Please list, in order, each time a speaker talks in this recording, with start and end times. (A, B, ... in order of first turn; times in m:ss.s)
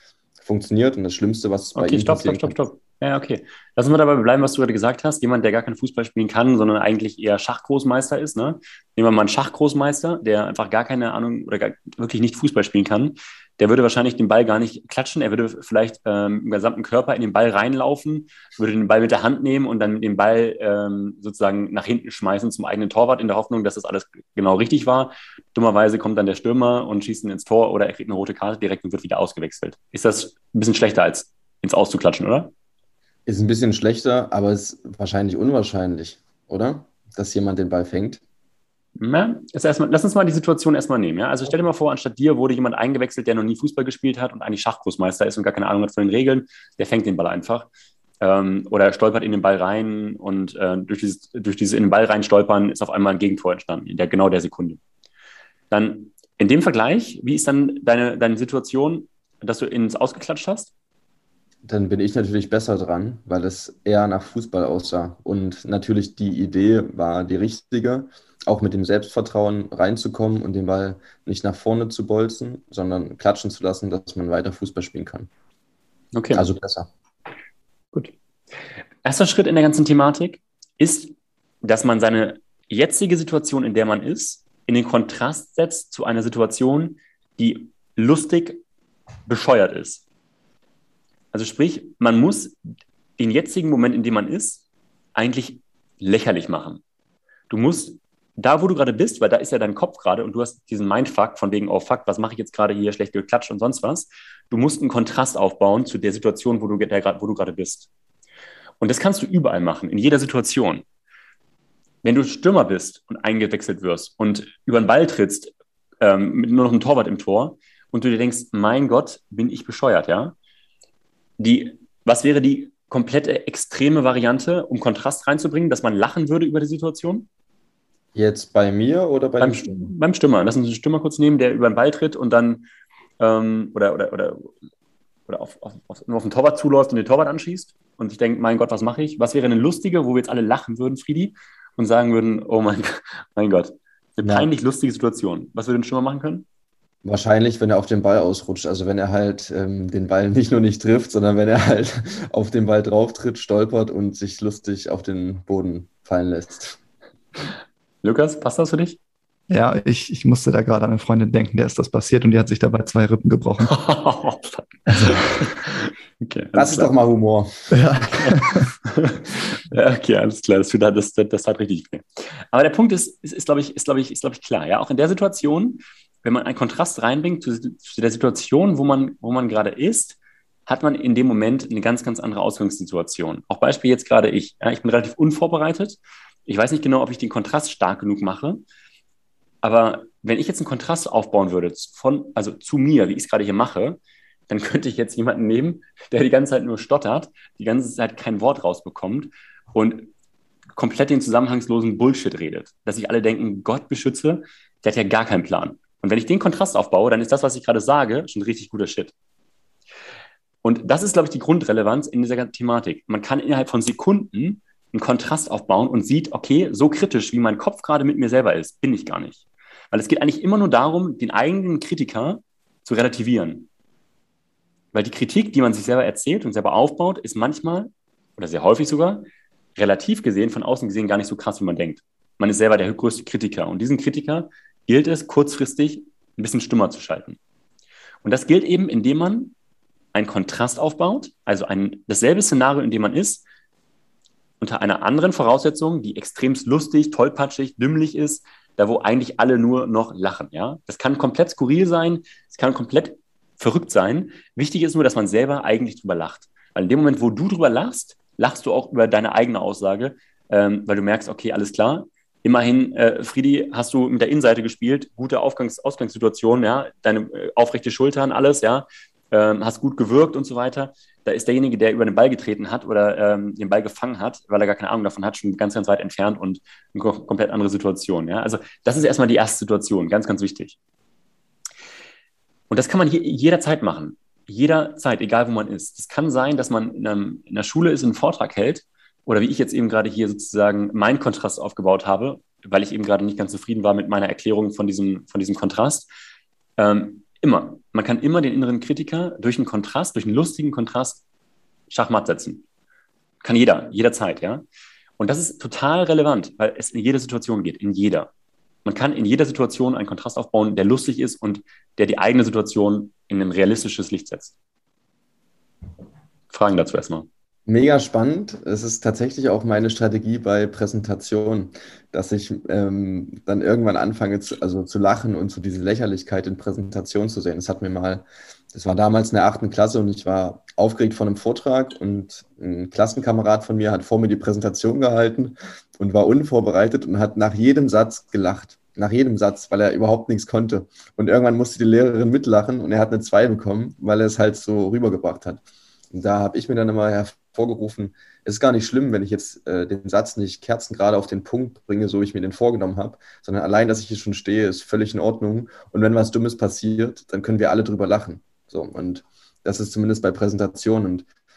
0:00.4-0:02.6 A
0:01.8-0:32.5 B
0:33.3-0:38.2 A
0:39.0-0:47.7 B
0:48.2-0:54.8 B
0:55.7-1:00.7 B
1:01.6-1:15.3 A
1:16.1-1:16.4 B
1:16.3-1:16.9 A
1:19.0-1:28.6 B
1:29.3-1:30.0 B
1:31.3-1:32.6 B
1:33.2-1:34.6 B
1:35.2-1:36.8 B
1:37.5-1:47.9 B
1:48.8-1:50.8 B
1:52.0-2:00.4 B
2:01.4-2:07.3 B
2:08.2-2:09.9 A
2:09.4-2:12.7 B
2:13.2-2:14.6 B
2:15.3-2:26.5 B
2:24.2-2:24.5 A
2:27.0-2:36.8 A
2:38.0-2:39.0 B
2:39.5-2:43.7 C
2:43.7-2:46.9 B
2:44.9-2:45.2 C
2:46.6-2:47.8 A
2:47.7-2:48.7 C
2:48.2-3:08.6 B
3:09.6-3:20.1 B
3:20.8-3:29.1 B
3:30.6-3:43.7 B
3:44.9-3:57.4 B
3:58.2-3:59.5 B
4:00.1-4:03.4 B
4:04.6-4:40.8 B
4:42.7-4:56.1 B
4:56.8-5:01.2 B
5:01.9-5:02.6 B
5:03.4-5:04.6 B
5:05.2-5:08.3 B
5:08.8-5:14.6 B
5:16.5-5:17.3 B
5:17.7-6:01.3 A